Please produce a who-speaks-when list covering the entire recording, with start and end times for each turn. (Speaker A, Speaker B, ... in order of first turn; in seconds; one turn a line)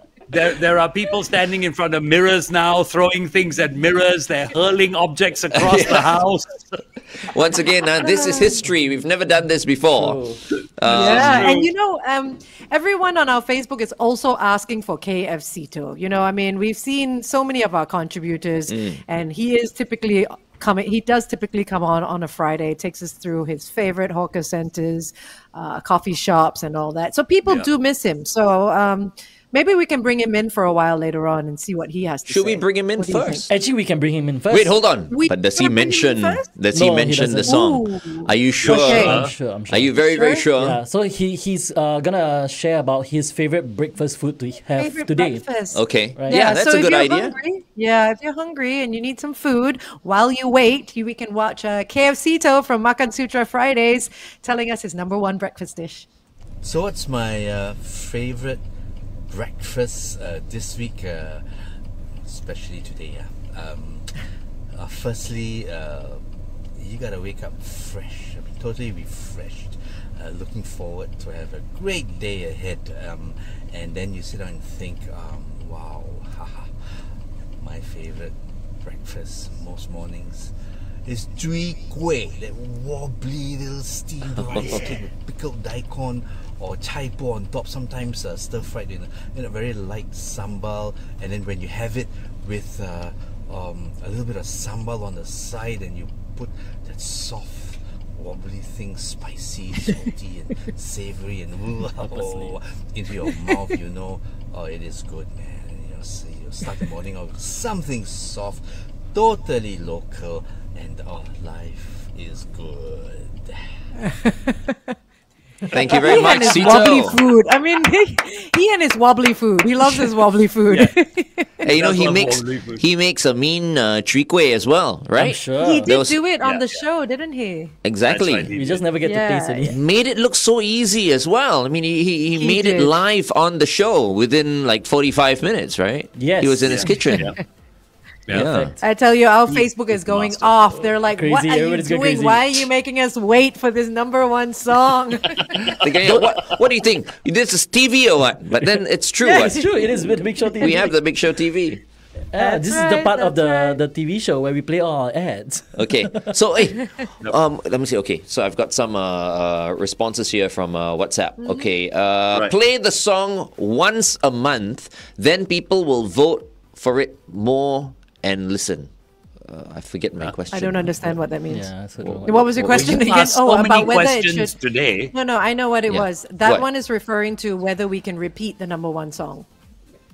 Speaker A: 0.3-6.8
Speaker B: 5.5-6.2
Speaker B: 7.2-10.2
Speaker C: 8.1-8.4
Speaker D: 10.0-10.4
Speaker B: 10.8-11.5
Speaker A: 10.8-11.7
Speaker C: 10.9-33.5
Speaker B: 18.7-19.0
Speaker B: 32.3-33.5
Speaker D: 33.5-34.8
Speaker B: 34.5-40.8
Speaker C: 35.1-36.5
Speaker D: 36.7-37.6
Speaker C: 37.4-39.1
Speaker A: 38.6-39.4
Speaker D: 38.8-40.0
Speaker C: 40.0-40.4
Speaker D: 40.6-45.4
Speaker C: 44.8-56.1
Speaker B: 45.7-47.4
Speaker D: 46.2-46.4
Speaker E: 56.6-58.7
Speaker E: 59.3-61.5
Speaker E: 62.2-114.4
Speaker B: 84.5-84.9
Speaker D: 102.0-102.6
Speaker C: 114.2-114.8
Speaker B: 115.7-117.2
Speaker C: 115.9-121.6
Speaker A: 121.6-122.9
Speaker B: 121.6-126.2
Speaker D: 125.2-125.9
Speaker C: 125.6-127.7
Speaker A: 126.4-126.9
Speaker B: 127.8-128.5
Speaker A: 128.1-128.9
Speaker D: 128.6-129.8
Speaker C: 129.0-129.7
Speaker B: 129.7-137.3
Speaker C: 132.3-133.0
Speaker D: 136.2-137.1
Speaker A: 136.6-137.4
Speaker B: 138.3-138.7
Speaker D: 138.3-138.8
Speaker C: 138.8-145.6
Speaker D: 139.5-142.7
Speaker B: 145.8-149.7
Speaker D: 146.0-146.4
Speaker C: 149.2-149.8
Speaker D: 149.3-150.9
Speaker C: 150.5-150.9
Speaker B: 150.6-151.8
Speaker D: 152.3-156.3
Speaker C: 152.4-153.8
Speaker B: 155.8-171.2
Speaker C: 161.4-161.7
Speaker C: 170.5-171.7
Speaker D: 171.5-172.9
Speaker B: 172.0-173.2
Speaker C: 172.2-174.6
Speaker A: 172.8-175.1
Speaker C: 175.1-179.5
Speaker B: 175.9-176.7